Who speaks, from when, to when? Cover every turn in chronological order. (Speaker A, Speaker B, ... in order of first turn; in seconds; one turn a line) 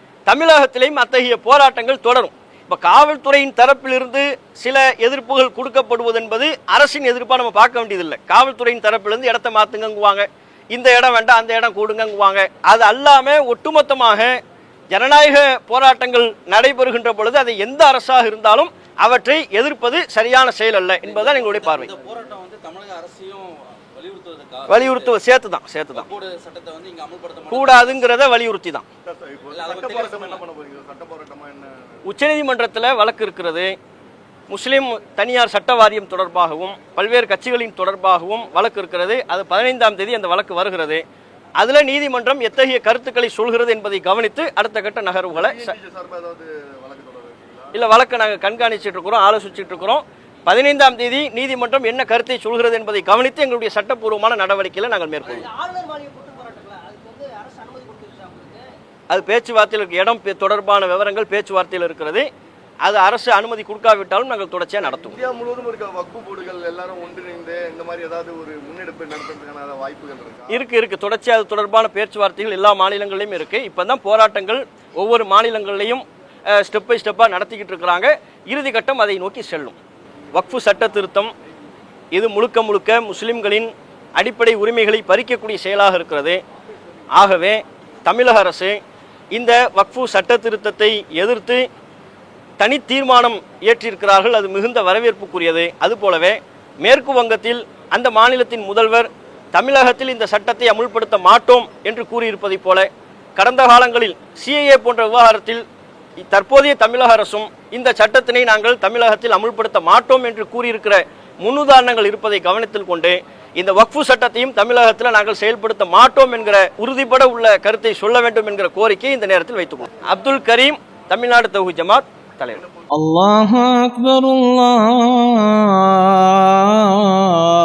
Speaker A: 0.2-14.4
Speaker A: 14.9-21.9
Speaker B: 21.0-25.1
Speaker A: 24.7-26.1
Speaker B: 25.9-28.1
Speaker A: 27.5-28.8
Speaker C: 29.1-31.7
Speaker B: 29.5-30.4
Speaker A: 32.0-33.7
Speaker A: 34.5-41.0
Speaker A: 41.6-45.8
Speaker C: 45.3-47.7
Speaker A: 47.7-55.5
Speaker D: 55.2-58.6
Speaker A: 59.1-62.3
Speaker A: 62.8-65.2
Speaker C: 64.8-70.6
Speaker A: 70.5-79.8
Speaker A: 80.3-81.3
Speaker A: 82.1-86.4
Speaker A: 87.1-88.8
Speaker A: 89.3-91.6
Speaker A: 92.6-105.6
Speaker A: 106.2-122.6
Speaker E: 123.0-126.7